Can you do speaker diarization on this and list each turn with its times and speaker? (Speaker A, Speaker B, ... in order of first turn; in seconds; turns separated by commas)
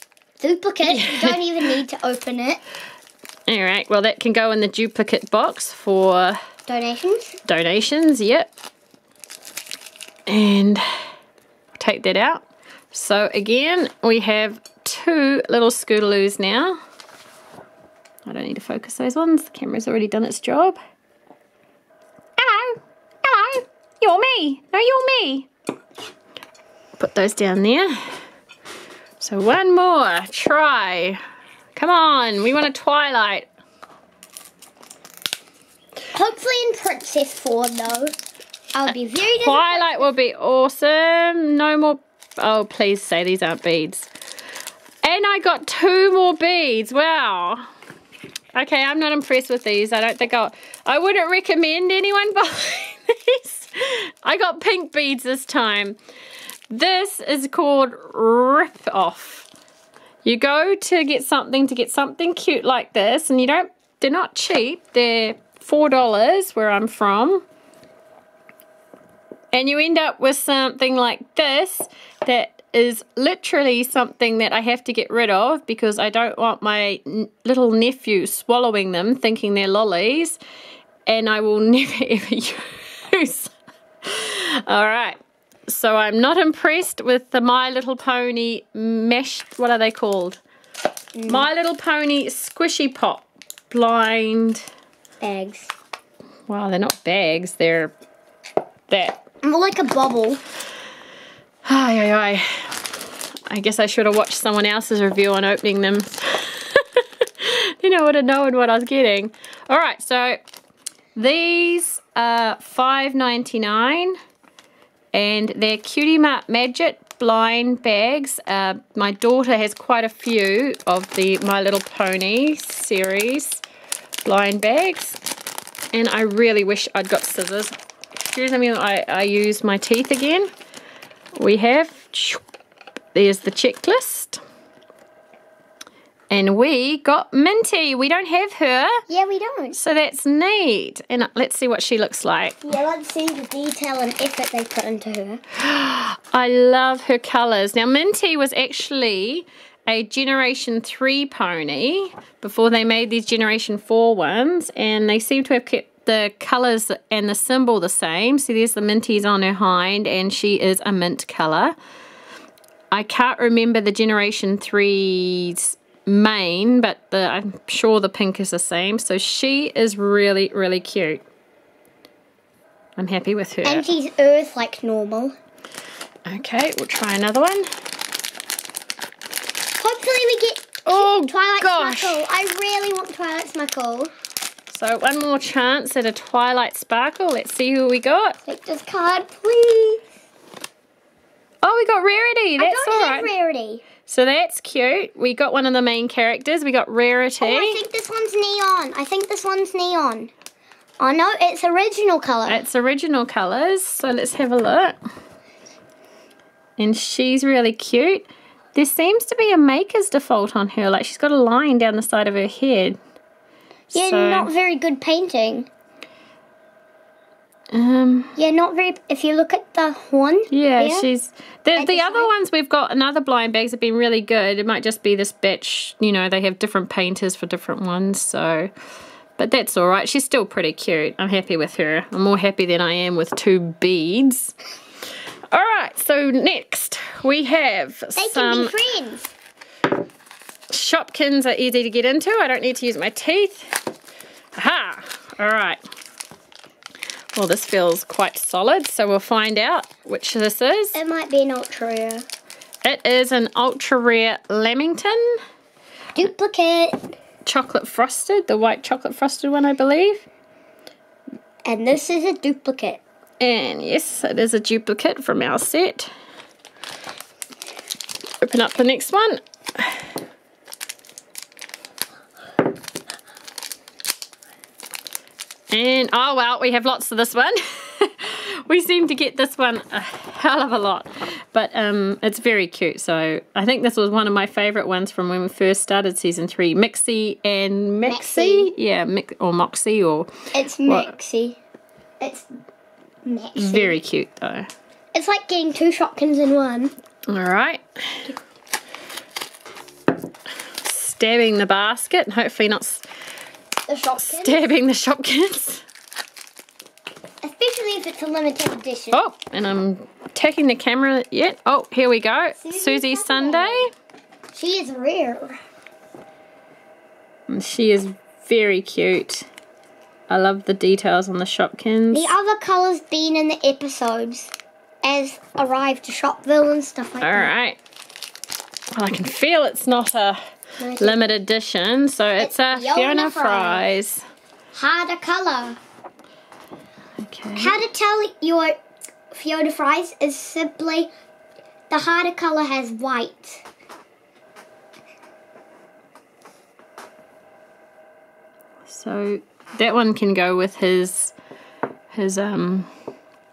Speaker A: 0.4-2.6, Speaker B: 0.8-1.4, Speaker B: 3.5-6.4, Speaker A: 6.7-7.4, Speaker B: 7.5-8.5, Speaker B: 10.3-10.9, Speaker B: 11.8-16.8, Speaker B: 18.3-20.8, Speaker B: 22.4-25.5, Speaker B: 27.0-28.1, Speaker B: 29.2-31.2, Speaker B: 31.8-33.5, Speaker A: 36.1-38.1, Speaker A: 38.8-40.1, Speaker B: 39.4-44.1, Speaker B: 45.0-47.7, Speaker B: 48.5-56.0, Speaker B: 56.7-59.5, Speaker B: 60.2-67.4, Speaker B: 69.5-80.4, Speaker B: 81.1-83.5, Speaker B: 84.0-90.4, Speaker A: 91.2-91.5, Speaker B: 91.3-94.7, Speaker A: 95.2-95.7, Speaker B: 96.5-97.9, Speaker B: 98.9-99.2, Speaker A: 99.4-100.4, Speaker B: 101.7-110.4, Speaker B: 111.2-114.2, Speaker B: 115.1-123.6, Speaker B: 124.2-125.2, Speaker B: 125.9-130.5, Speaker B: 131.3-132.4, Speaker B: 133.2-134.4, Speaker B: 136.3-139.0, Speaker A: 139.1-139.8, Speaker B: 139.7-142.7, Speaker A: 142.7-145.4, Speaker B: 145.6-161.8, Speaker B: 162.9-171.2, Speaker B: 173.0-173.9, Speaker A: 173.7-175.4, Speaker B: 176.3-177.7, Speaker A: 179.8-184.1, Speaker B: 180.9-182.2, Speaker B: 184.7-188.4, Speaker A: 188.4-190.1, Speaker B: 191.6-193.3, Speaker A: 192.6-193.8, Speaker B: 194.1-197.8, Speaker A: 197.4-200.3, Speaker A: 201.0-202.6, Speaker B: 202.5-205.0, Speaker B: 206.8-213.0, Speaker B: 213.9-214.5, Speaker A: 213.9-215.7, Speaker B: 217.7-218.3, Speaker A: 218.4-221.1, Speaker B: 220.5-228.7, Speaker A: 221.8-222.3, Speaker B: 229.4-234.6, Speaker B: 235.5-238.8, Speaker A: 238.2-239.3, Speaker B: 240.7-243.7, Speaker B: 244.6-245.8, Speaker B: 247.3-251.0, Speaker A: 250.9-252.3, Speaker B: 252.8-255.4, Speaker A: 256.1-257.1, Speaker B: 257.4-260.2, Speaker A: 261.6-263.0, Speaker B: 263.4-266.1, Speaker B: 268.4-270.0, Speaker B: 275.7-290.3, Speaker A: 288.0-288.7, Speaker A: 290.5-291.6, Speaker B: 290.9-291.1, Speaker A: 292.2-292.5, Speaker A: 293.2-294.0, Speaker B: 293.6-294.7, Speaker A: 295.1-296.9, Speaker B: 297.3-298.3, Speaker B: 300.8-303.0, Speaker A: 303.9-304.7, Speaker B: 304.2-305.8, Speaker A: 307.4-309.2, Speaker B: 309.1-313.9, Speaker A: 312.6-313.9, Speaker A: 314.5-315.6, Speaker B: 317.5-319.5, Speaker B: 320.3-322.3, Speaker A: 322.1-324.5, Speaker A: 325.0-327.5, Speaker B: 327.2-327.8, Speaker B: 328.9-330.4, Speaker A: 330.8-331.2, Speaker B: 331.0-334.2, Speaker A: 332.4-333.9, Speaker A: 334.7-335.8, Speaker B: 337.2-337.8, Speaker A: 337.6-338.8, Speaker A: 339.3-341.1, Speaker A: 341.9-343.6, Speaker B: 348.9-351.3, Speaker B: 352.1-352.9